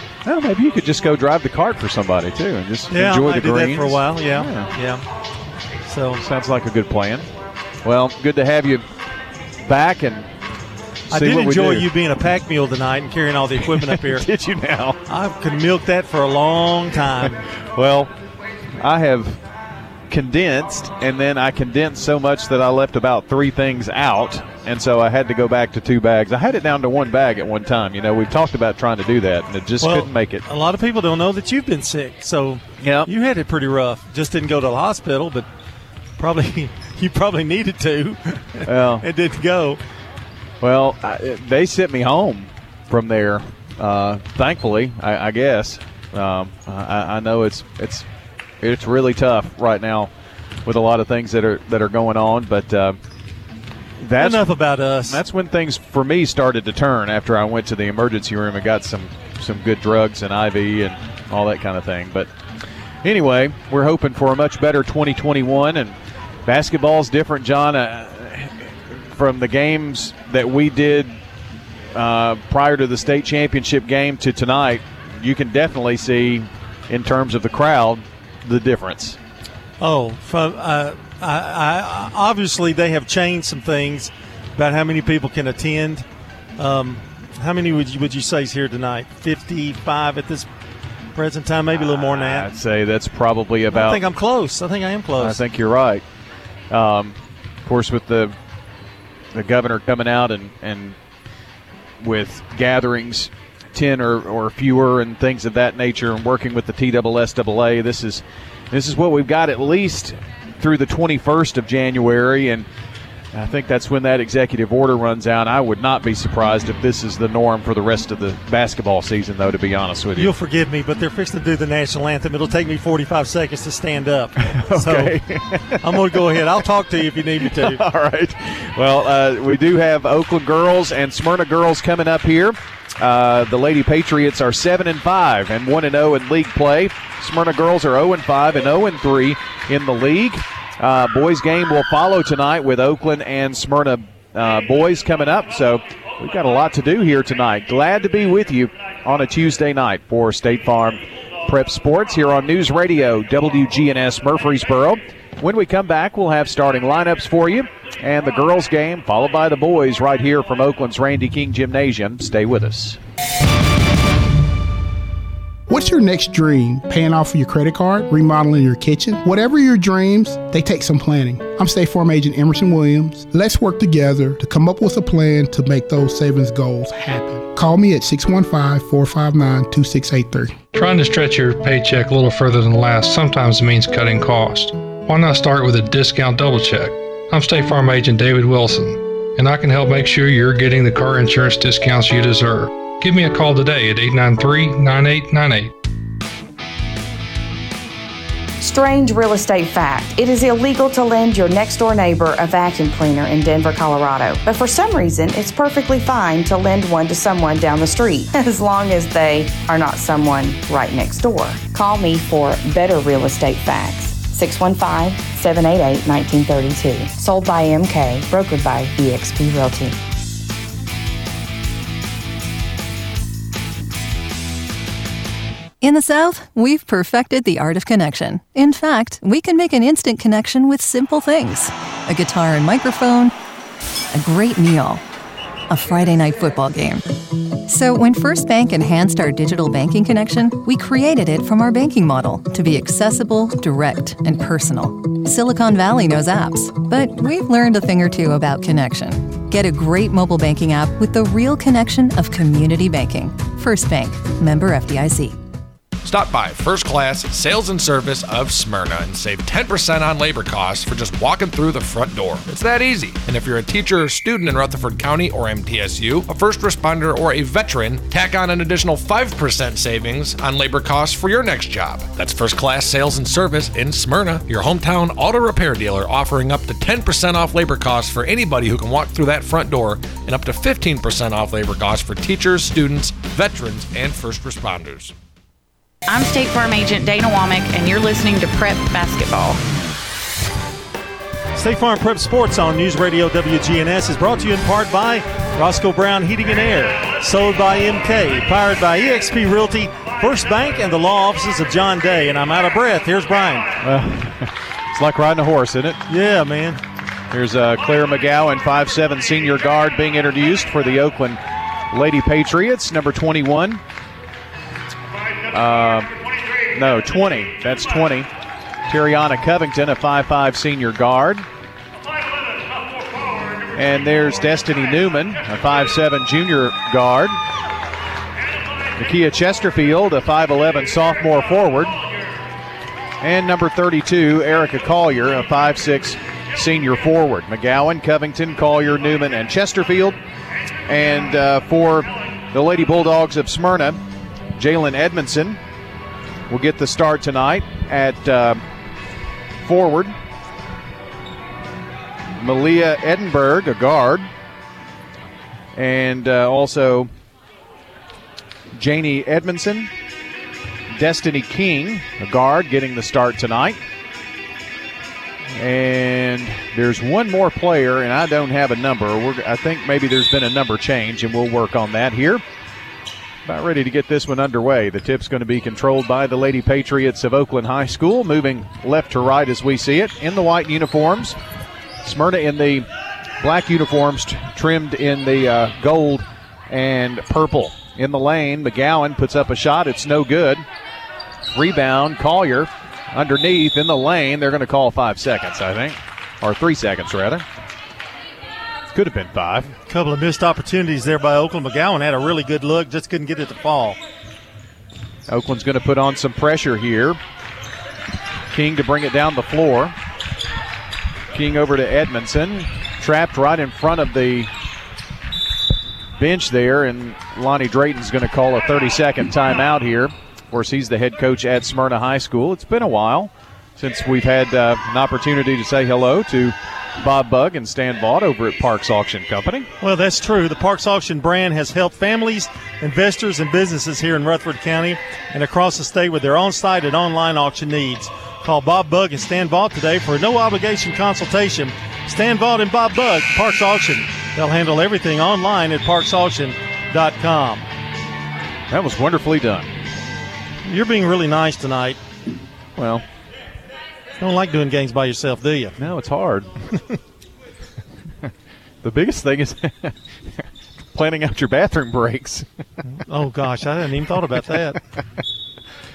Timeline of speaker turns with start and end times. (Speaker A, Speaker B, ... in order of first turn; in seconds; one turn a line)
Speaker A: 0.2-4.7
Speaker B: 2.9-5.0
Speaker B: 5.9-6.2
Speaker A: 6.2-7.3
Speaker A: 7.8-8.8
Speaker A: 9.6-10.3
Speaker A: 11.1-11.9
Speaker B: 11.1-14.2
Speaker A: 13.6-15.0
Speaker B: 15.1-17.4
Speaker A: 17.2-18.1
Speaker A: 18.8-19.4
Speaker A: 20.1-30.4
Speaker B: 29.8-35.5
Speaker A: 32.8-33.1
Speaker B: 36.2-39.8
Speaker A: 38.6-39.0
Speaker A: 40.6-48.0
Speaker A: 48.6-50.1
Speaker A: 50.6-53.0
Speaker A: 54.0-54.5
Speaker B: 54.2-55.2
Speaker A: 55.1-62.3
Speaker A: 63.0-71.2
Speaker A: 71.9-79.2
Speaker B: 79.8-86.0
Speaker B: 86.6-90.5
Speaker B: 91.1-92.5
Speaker A: 91.8-94.0
Speaker B: 93.7-95.4
Speaker A: 95.2-96.0
Speaker A: 96.7-98.3
Speaker A: 99.3-101.0
Speaker A: 102.0-112.7
Speaker A: 113.3-120.3
Speaker B: 120.2-125.1
Speaker A: 124.4-126.4
Speaker B: 125.8-127.8
Speaker A: 127.4-163.0
Speaker C: 165.7-180.6
Speaker D: 180.7-195.7
Speaker E: 198.6-220.0
Speaker F: 225.8-233.3
Speaker F: 234.1-235.0
Speaker F: 235.7-237.0
Speaker F: 237.7-255.4
Speaker G: 256.0-285.1
Speaker H: 286.1-289.6
Speaker B: 291.5-303.7
Speaker A: 303.8-306.0
Speaker B: 306.1-306.8
Speaker A: 307.3-311.4
Speaker A: 311.9-313.8
Speaker A: 315.5-316.1
Speaker A: 316.7-318.3
Speaker A: 318.9-321.4
Speaker A: 323.7-327.4
Speaker A: 328.9-332.0
Speaker A: 333.2-340.2
Speaker A: 340.9-344.0
Speaker A: 344.6-345.6
Speaker A: 346.5-348.6
Speaker A: 349.6-350.1
Speaker A: 352.4-354.3
Speaker A: 355.7-357.1
Speaker A: 358.7-359.9
Speaker A: 360.9-363.8
Speaker A: 365.5-372.4
Speaker A: 373.4-381.4
Speaker A: 382.0-382.9
Speaker A: 383.4-390.6
Speaker A: 391.5-397.4
Speaker A: 398.9-399.8
Speaker B: 399.9-404.0
Speaker A: 405.3-407.2
Speaker A: 408.5-409.9
Speaker A: 411.3-414.5
Speaker A: 416.2-429.7
Speaker B: 429.8-447.7
Speaker A: 448.7-449.7
Speaker B: 450.6-452.0
Speaker A: 452.8-453.0
Speaker B: 454.2-455.7
Speaker A: 455.8-456.5
Speaker A: 458.8-459.9
Speaker A: 460.9-462.4
Speaker B: 463.0-464.8